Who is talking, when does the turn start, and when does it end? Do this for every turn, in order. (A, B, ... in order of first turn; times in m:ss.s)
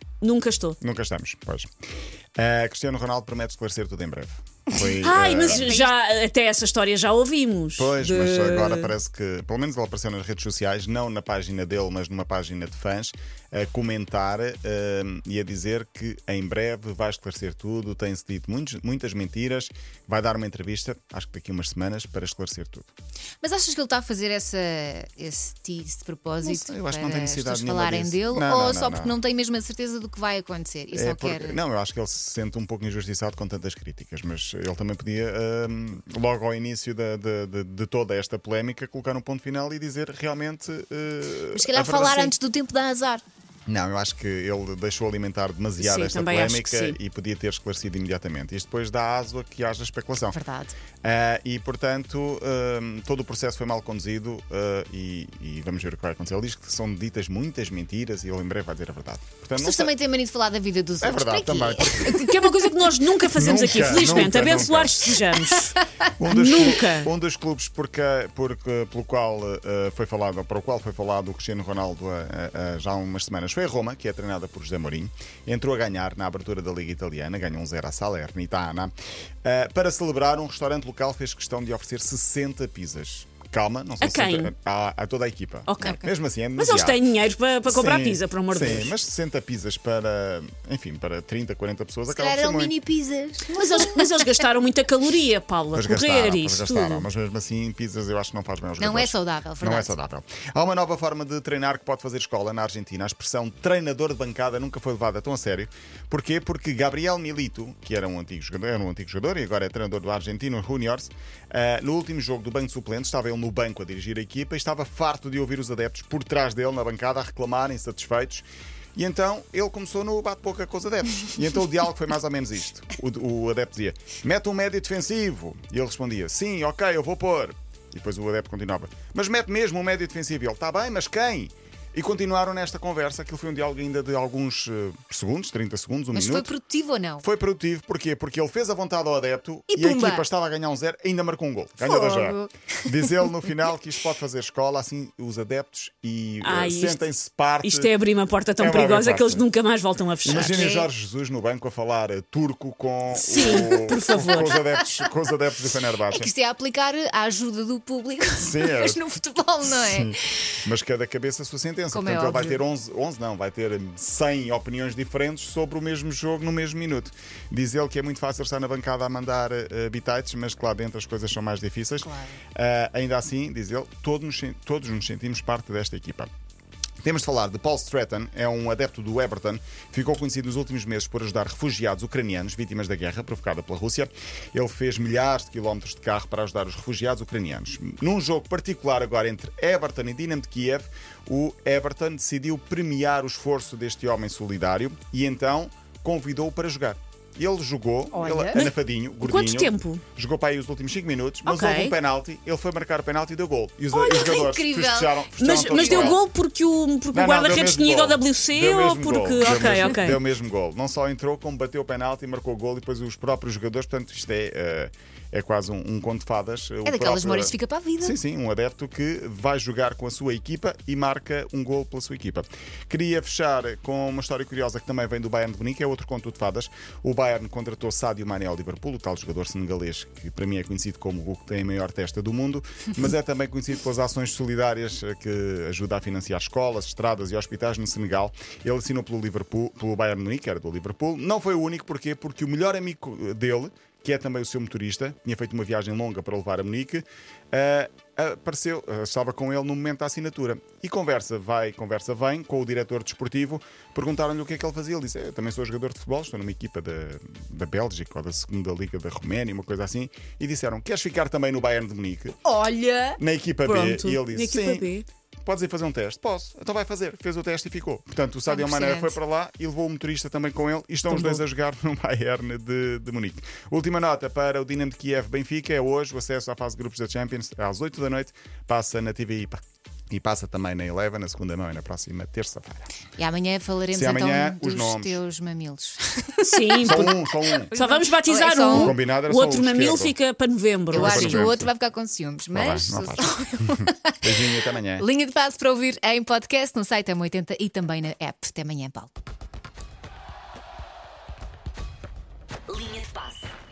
0:00.2-0:00.8 A
0:00.8-0:01.7 B
0:02.4-0:05.7 B
0:04.8-0:05.9 C
0:05.0-0:08.9 A
0:07.8-0:22.9 B
0:23.4-0:31.6 C
0:26.4-0:29.2 B
0:30.9-0:42.4 B
0:41.5-0:43.2 C
0:43.7-0:50.4 B
0:45.8-0:47.0 A
0:50.3-0:50.8 C
0:51.0-0:59.9 B
0:59.6-1:02.8 C
1:01.0-1:02.2 B
1:02.1-1:05.8 A
1:03.3-1:05.5 B
1:05.4-1:05.8 C
1:06.2-1:18.9 B
1:06.3-1:07.1 A
1:19.4-1:27.0 B
1:24.0-1:24.5 A
1:25.7-1:28.9 A
1:27.7-1:32.7 B
1:32.1-1:34.1 C
1:33.5-1:37.1 A
1:35.7-2:16.5 B
1:38.8-1:40.0 C
2:16.1-2:17.3 C
2:17.2-2:27.9 B
2:19.7-2:20.3 C
2:21.8-2:23.2 C
2:26.4-2:27.1 A
2:27.6-2:30.7 A
2:28.6-2:29.5 B
2:30.2-2:36.3 B
2:30.3-2:30.9 C
2:33.2-2:34.6 A
2:33.4-2:35.1 C
2:36.1-2:40.4 C
2:38.4-2:39.0 B
2:39.7-2:56.3 B
2:41.9-2:42.6 C
2:52.0-2:52.4 C
2:57.0-3:26.2 B
3:18.1-3:18.7 C
3:18.5-3:20.0 A
3:21.5-3:22.0 A
3:23.9-3:26.2 C
3:25.4-3:30.2 A
3:27.1-4:22.4 B
3:36.8-3:38.2 C
4:22.4-4:23.2 C
4:23.2-4:24.9 B
4:23.6-4:25.0 A
4:25.4-4:42.9 B
4:28.5-4:29.2 C
4:31.1-4:31.4 A
4:43.2-4:49.0 C
4:43.9-4:45.2 B
4:46.4-4:47.1 A
4:46.8-4:47.7 B
4:47.7-4:51.4 A
4:48.8-4:50.2 B
4:50.9-4:51.7 B
4:50.9-4:54.2 C
4:52.5-4:55.0 B
4:54.7-4:59.1 C
5:02.7-5:03.3 C